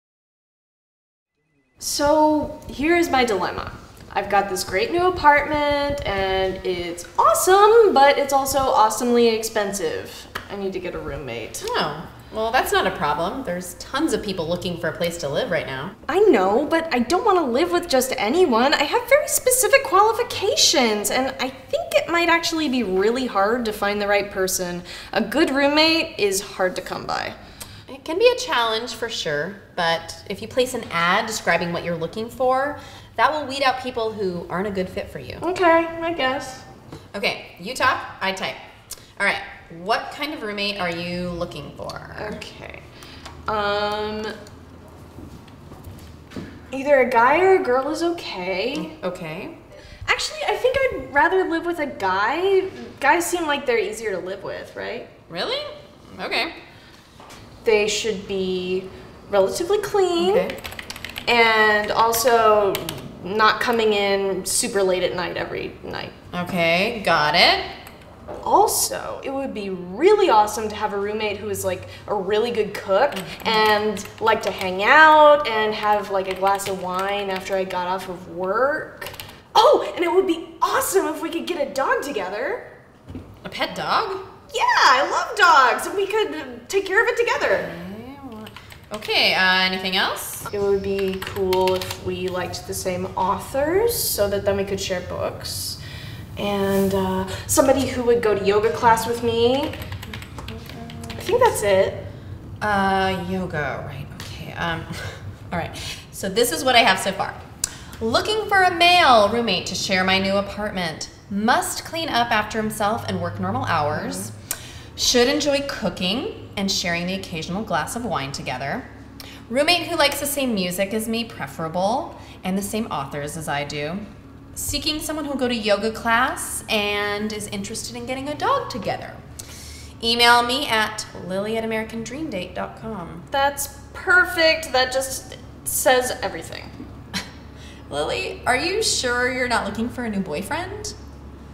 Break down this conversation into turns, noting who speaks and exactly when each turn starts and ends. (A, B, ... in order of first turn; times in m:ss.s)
0:01.8-0:11.7 A
0:11.6-0:16.0 B
0:16.1-0:27.4 A
0:27.9-0:35.4 B
0:35.4-0:36.6 A
0:37.1-0:38.6 B
0:39.2-0:42.4 B
0:42.2-0:42.8 A
0:43.5-0:44.3 A
0:46.7-0:49.0 A
0:48.8-0:49.6 B
0:50.1-0:55.1 A
0:55.3-0:56.5 B
0:57.6-1:00.5 A
1:00.2-1:00.6 B
1:01.3-1:06.2 A
1:06.3-1:07.7 B
1:08.4-1:22.7 A
1:13.2-1:13.7 B
1:23.4-1:24.2 B
1:24.5-1:27.7 A
1:27.4-1:30.5 B
1:30.5-1:35.8 A
1:36.4-1:39.8 A
1:40.5-1:41.2 B
1:41.2-1:42.0 A
1:42.6-1:47.4 B
1:48.0-1:54.3 B
1:53.9-1:54.3 A
1:55.0-1:58.9 B
1:59.5-2:04.0 B
2:04.6-2:09.2 B
2:10.0-2:13.3 B
2:13.3-2:16.7 A
2:17.9-2:21.0 B